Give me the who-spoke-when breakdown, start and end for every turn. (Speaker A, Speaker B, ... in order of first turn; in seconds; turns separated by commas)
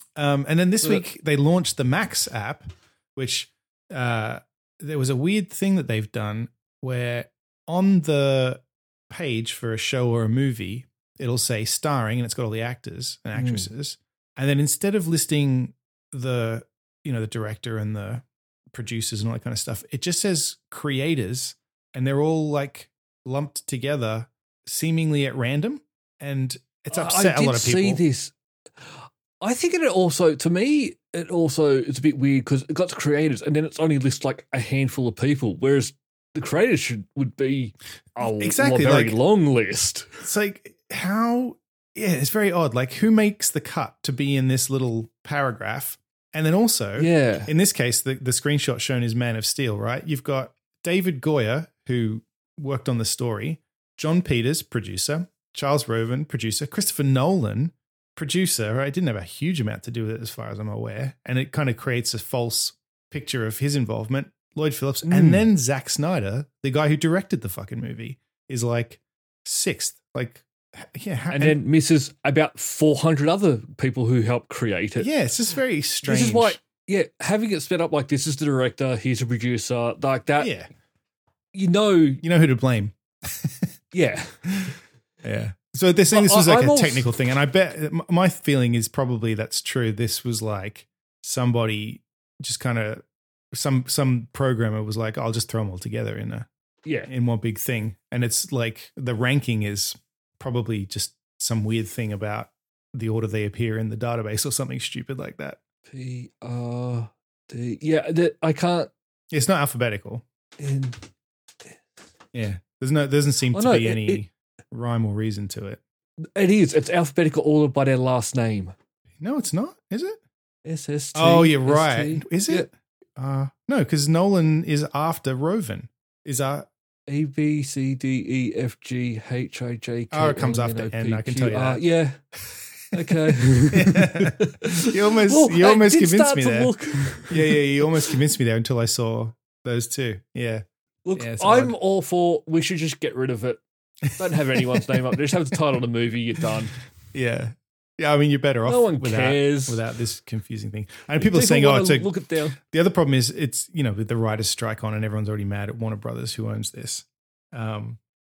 Speaker A: 0.1-28.0, Speaker B: 13.3-13.7, Speaker B: 26.9-40.2, Speaker A: 38.2-39.2, Speaker A: 40.2-71.6, Speaker B: 47.0-47.5, Speaker B: 65.0-65.5, Speaker B: 71.3-75.1, Speaker A: 75.0-76.6, Speaker B: 76.0-80.5, Speaker A: 80.4-80.7, Speaker B: 81.5-82.2, Speaker A: 82.2-83.7, Speaker B: 83.9-84.5, Speaker A: 85.2-96.5, Speaker B: 86.1-87.1, Speaker B: 96.8-97.1, Speaker A: 97.1-105.6, Speaker B: 105.9-108.9, Speaker A: 109.3-110.2, Speaker B: 110.6-111.0, Speaker A: 112.3-115.8, Speaker B: 113.5-114.2, Speaker B: 116.3-118.7, Speaker A: 119.2-120.2, Speaker B: 120.6-122.7, Speaker A: 121.1-126.7, Speaker B: 127.1-132.2, Speaker A: 130.1-131.8, Speaker A: 132.5-133.1, Speaker B: 132.9-138.1, Speaker A: 133.7-136.7, Speaker A: 137.3-140.6, Speaker B: 141.0-143.6, Speaker A: 141.2-141.7, Speaker B: 144.2-146.7, Speaker A: 144.2-145.0, Speaker A: 147.1-158.0, Speaker B: 148.7-149.8, Speaker B: 151.2-152.6